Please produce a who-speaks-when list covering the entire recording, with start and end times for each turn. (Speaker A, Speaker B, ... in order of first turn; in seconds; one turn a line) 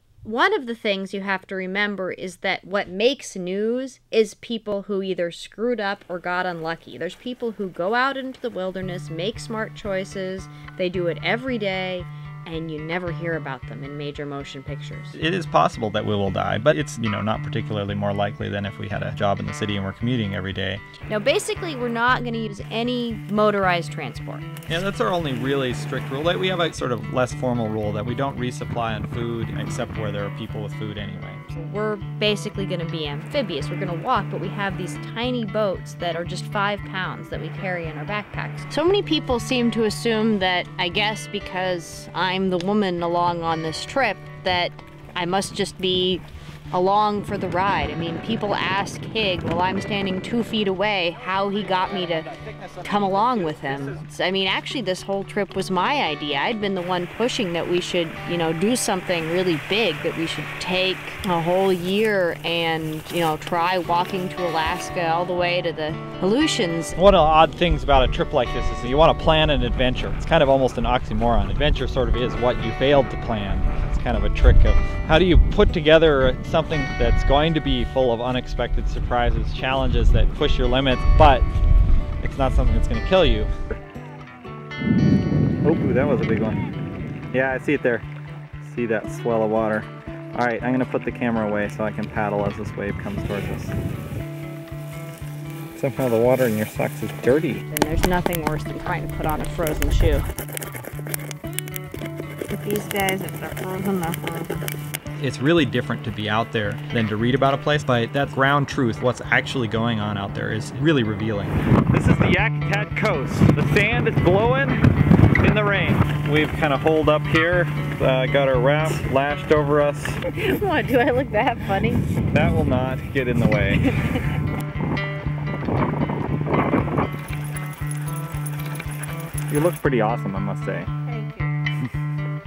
Speaker A: 0.2-15.2
Speaker B: 15.1-20.8
Speaker A: 21.1-24.5
Speaker B: 24.7-31.4
Speaker A: 31.5-67.0
Speaker B: 67.0-81.5
Speaker B: 82.2-83.5
Speaker B: 85.6-86.7
Speaker B: 87.3-88.0
Speaker B: 88.6-93.8
Speaker B: 95.8-97.6
Speaker A: 97.7-100.2
Speaker A: 102.5-104.7
Speaker B: 105.2-114.8
Speaker B: 115.4-120.2
Speaker A: 120.3-122.0
Speaker B: 122.3-123.9
Speaker A: 123.7-124.4
Speaker B: 129.5-130.9
Speaker A: 131.1-131.5